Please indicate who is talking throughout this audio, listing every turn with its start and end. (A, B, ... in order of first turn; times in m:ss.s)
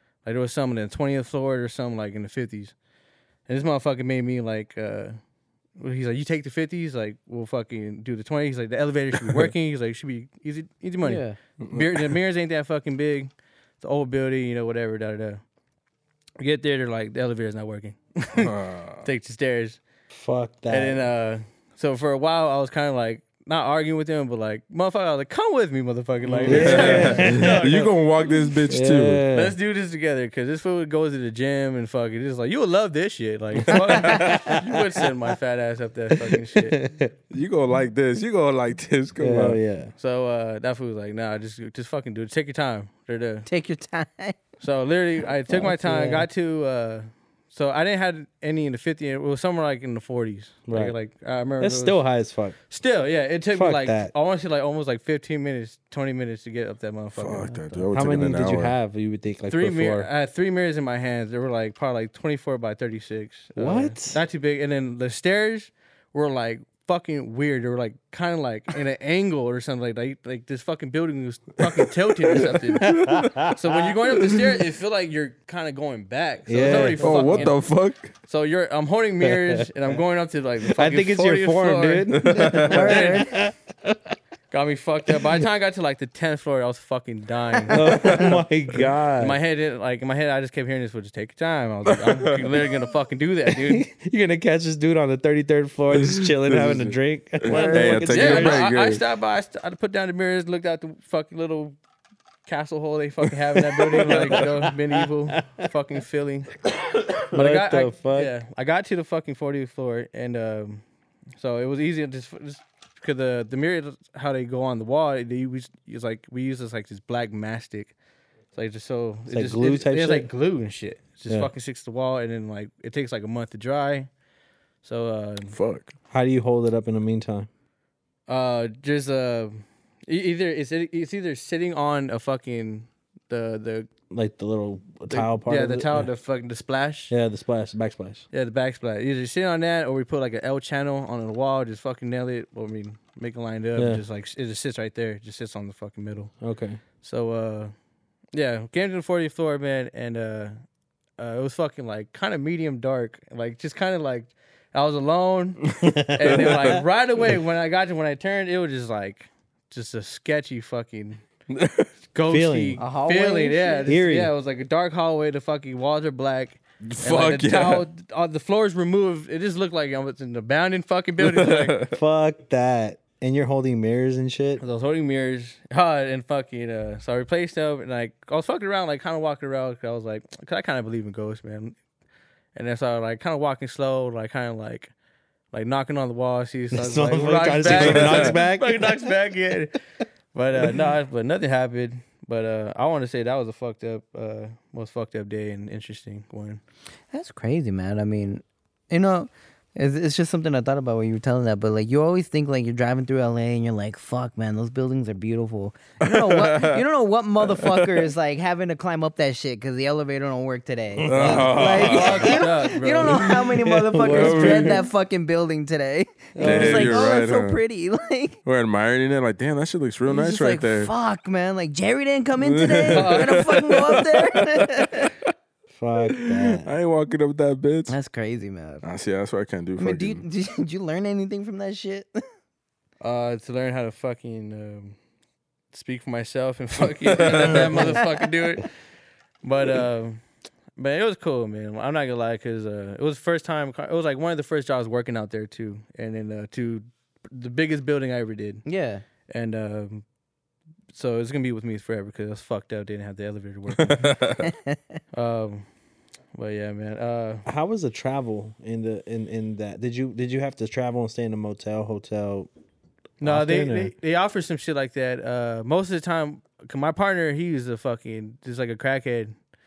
0:00.2-0:02.7 A
0:03.5-0:05.2 A
0:05.8-0:15.4 A
0:11.0-0:11.4 B
0:11.6-0:12.1 C
0:16.4-0:18.5 A
0:18.3-0:19.1 C
0:19.0-0:19.8 A
0:20.1-0:21.1 D
0:20.7-0:27.9 A
0:26.3-0:27.8 D
0:26.4-0:29.2 C
0:28.7-0:29.6 D
0:29.3-0:36.8 A
0:33.6-0:34.7 D
0:33.9-0:34.4 C
0:36.1-0:37.1 D
0:37.3-0:39.6 C
0:39.2-0:39.9 D
0:40.0-0:43.5 A
0:43.5-0:44.4 B
0:44.6-0:52.0 A
0:45.6-0:46.2 D
0:50.7-0:51.0 D
0:51.6-0:52.6 D
0:52.7-0:57.6 A
0:53.5-0:54.1 D
0:57.1-0:58.7 C
0:57.4-0:57.9 B
0:57.9-1:00.1 D
0:59.5-1:17.6 A
1:03.5-1:04.2 D
1:12.4-1:13.3 C
1:12.8-1:13.9 D
1:16.5-1:17.4 D
1:17.0-1:18.1 C
1:18.3-1:23.2 A
1:19.2-1:19.7 D
1:20.6-1:24.2 D
1:22.2-1:23.0 C
1:22.4-1:23.4 B
1:24.5-1:28.2 A
1:27.7-1:29.4 D
1:28.0-1:28.3 C
1:29.2-1:33.9 A
1:31.9-1:32.5 C
1:33.5-1:38.6 D
1:36.0-1:39.0 C
1:37.4-1:38.1 B
1:38.1-1:41.8 A
1:42.4-1:46.5 A
1:43.9-1:45.1 D
1:46.7-1:48.3 D
1:47.3-1:50.8 A
1:51.4-1:57.9 A
1:58.5-2:04.1 A
1:59.3-2:00.3 D
2:04.8-2:05.5 A
2:05.5-2:05.9 C
2:06.1-2:07.5 D
2:08.3-2:13.9 A
2:14.1-2:16.0 D
2:15.1-2:17.1 A
2:17.1-2:18.2 D
2:18.3-2:26.3 A
2:23.7-2:24.0 D
2:26.4-2:26.8 D
2:27.0-2:27.7 A
2:28.3-2:30.6 A
2:31.2-2:41.2 A
2:35.7-2:36.8 C
2:35.8-2:36.8 D
2:41.5-2:41.9 C
2:42.1-2:51.8 A
2:42.3-2:42.8 D
2:42.8-2:43.9 B
2:43.8-2:44.3 D
2:46.8-2:47.8 C
2:51.2-2:51.9 C
2:51.9-2:54.6 D
2:54.6-3:01.8 A
3:02.5-3:04.9 A
3:05.5-3:09.8 A
3:06.7-3:09.0 D
3:07.6-3:08.3 C
3:10.3-3:16.6 A
3:17.1-3:38.4 B
3:26.0-3:26.8 C
3:27.4-3:28.1 C
3:31.0-3:32.0 D
3:31.0-3:32.3 C
3:31.6-3:33.3 A
3:33.1-3:34.8 D
3:34.0-3:34.8 C
3:36.3-3:37.0 D
3:36.4-3:37.6 C
3:38.4-3:40.9 C
3:40.1-3:45.1 B
3:42.4-3:45.2 C
3:42.9-3:43.5 A
3:45.7-3:46.7 D
3:46.0-3:48.0 C
3:47.9-3:48.8 B
3:48.8-3:50.2 C
3:49.8-3:52.2 B
3:53.0-3:55.0 A
3:55.7-3:58.7 A
3:57.1-3:57.9 C
3:59.4-4:00.2 A
4:00.8-4:08.6 A
4:08.6-4:09.0 B
4:09.3-4:10.0 A
4:10.9-4:14.1 A
4:13.8-4:14.5 C
4:14.4-4:14.8 B
4:15.1-4:15.7 A
4:16.3-4:17.4 A
4:17.4-4:22.5 D
4:23.2-4:29.4 A
4:23.2-4:23.9 D